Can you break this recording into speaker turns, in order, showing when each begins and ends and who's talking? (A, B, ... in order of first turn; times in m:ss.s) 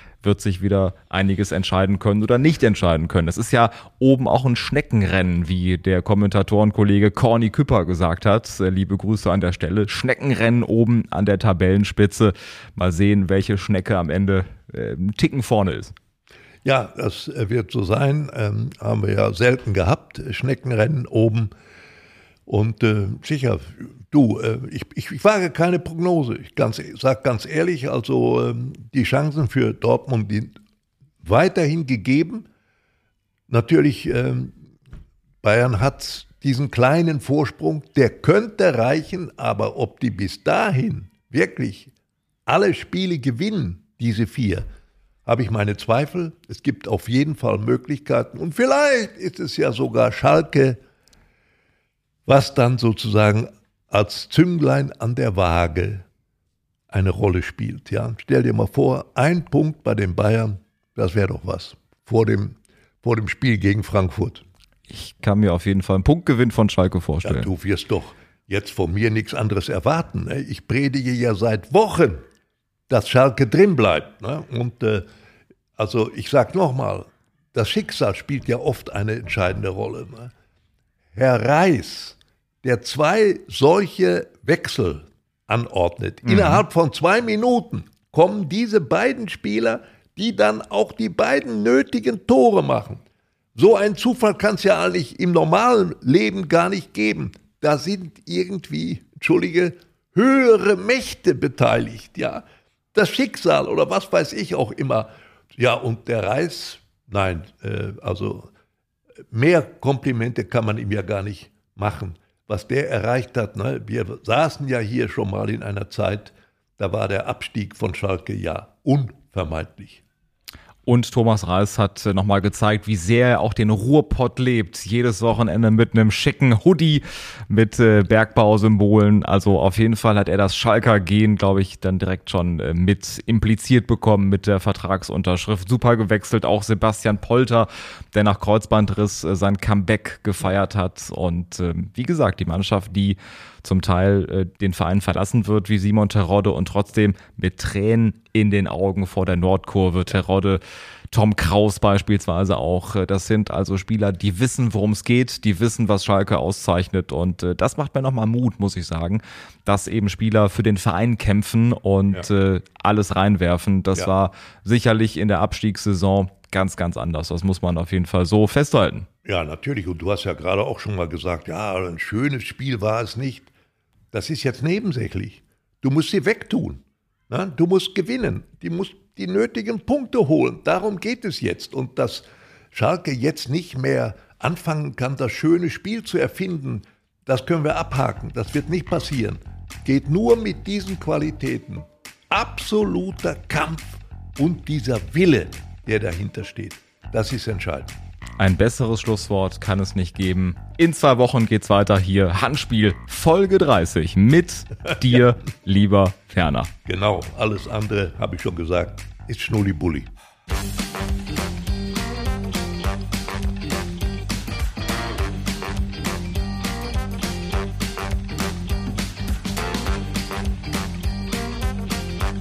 0:00.2-0:15.9 A
0:16.6-0:21.5 B
0:22.5-0:30.6 B
0:31.2-0:32.5 B
0:33.5-0:34.6 B
0:35.4-0:41.9 B
0:42.5-0:44.7 B
0:45.2-0:50.8 B
0:52.2-0:56.0 B
0:56.9-1:04.4 B
1:04.9-1:07.5 A
1:07.2-1:12.2 B
1:12.9-1:15.0 B
1:15.8-1:20.3 B
1:21.1-1:33.0 B
1:26.2-1:26.6 A
1:33.5-1:48.5 B
1:49.3-2:00.0 B
2:00.8-2:30.6 A
2:31.1-2:49.1 A
2:49.2-2:53.5 B
2:54.1-3:17.9 B
3:18.4-3:26.7 A
3:26.8-3:30.1 B